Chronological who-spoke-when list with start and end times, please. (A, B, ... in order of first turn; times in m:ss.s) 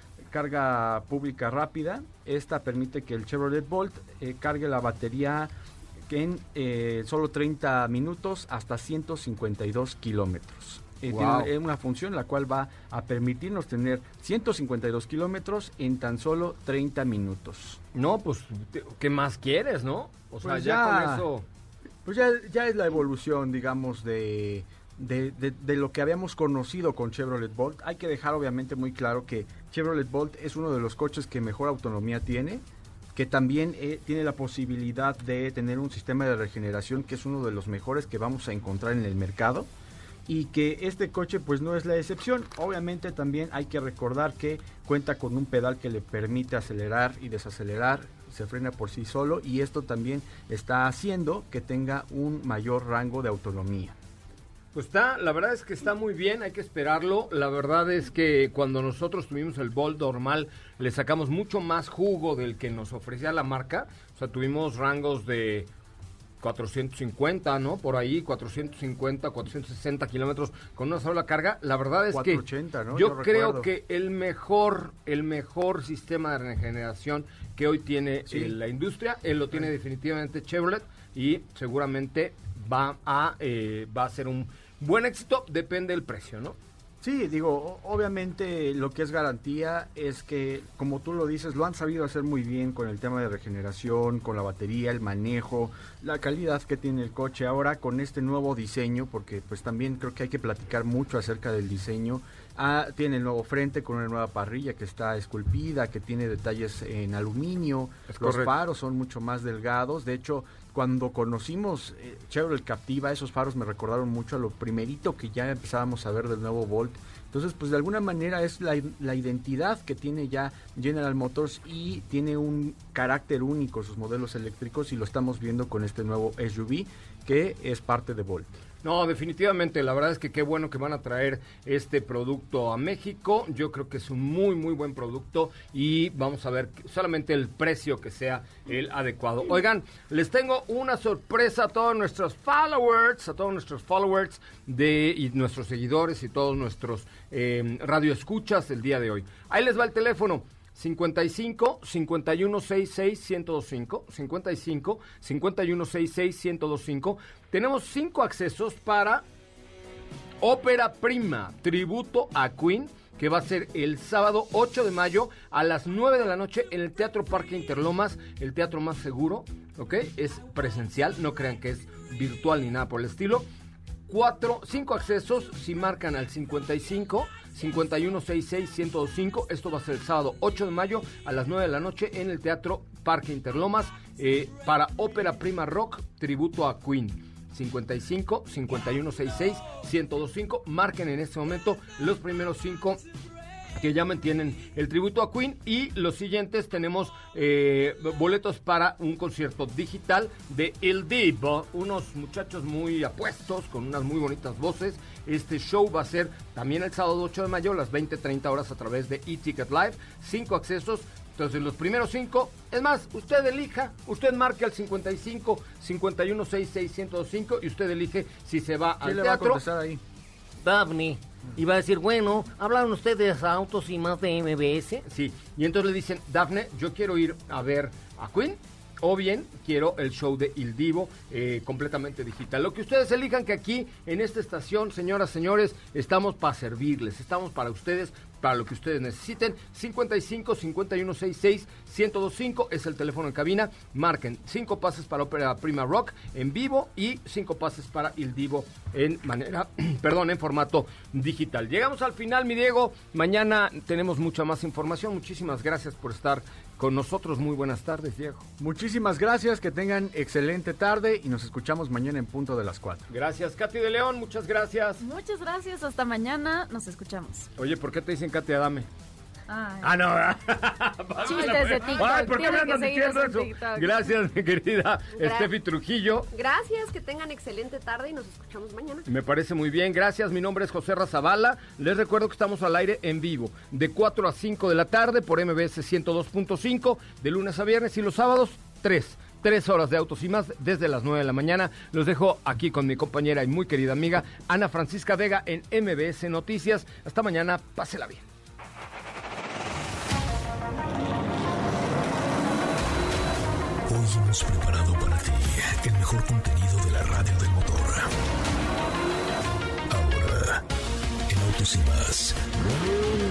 0:00.3-0:05.5 A
0:06.1-0:17.8 A
0:11.0-0:11.5 B
0:17.9-0:21.4 B
0:20.4-0:21.3 A
0:22.0-0:32.6 A
0:33.1-0:39.7 A
0:40.3-0:53.9 A
0:54.7-1:05.7 B
1:06.4-1:12.4 B
1:12.1-1:13.7 A
1:12.9-1:26.6 B
1:18.3-1:18.6 A
1:27.0-2:08.5 A
1:48.1-1:48.5 B
2:08.8-2:39.2 B
2:40.4-2:53.5 B
2:54.1-3:13.0 B
3:13.8-3:39.6 B
3:39.0-3:40.0 A
3:40.6-3:45.0 C
3:45.0-4:18.5 B
4:18.6-4:23.0 A
4:23.1-4:25.0 B
4:25.0-4:27.5 D
4:27.6-4:28.9 B
4:29.5-4:29.9 D
4:29.8-4:36.3 B
4:31.2-4:34.0 D
4:35.2-4:35.5 E
4:36.3-4:39.0 E
4:39.1-4:58.2 B
5:03.8-5:08.1 F
5:09.9-5:10.6 F
5:11.3-5:12.6 F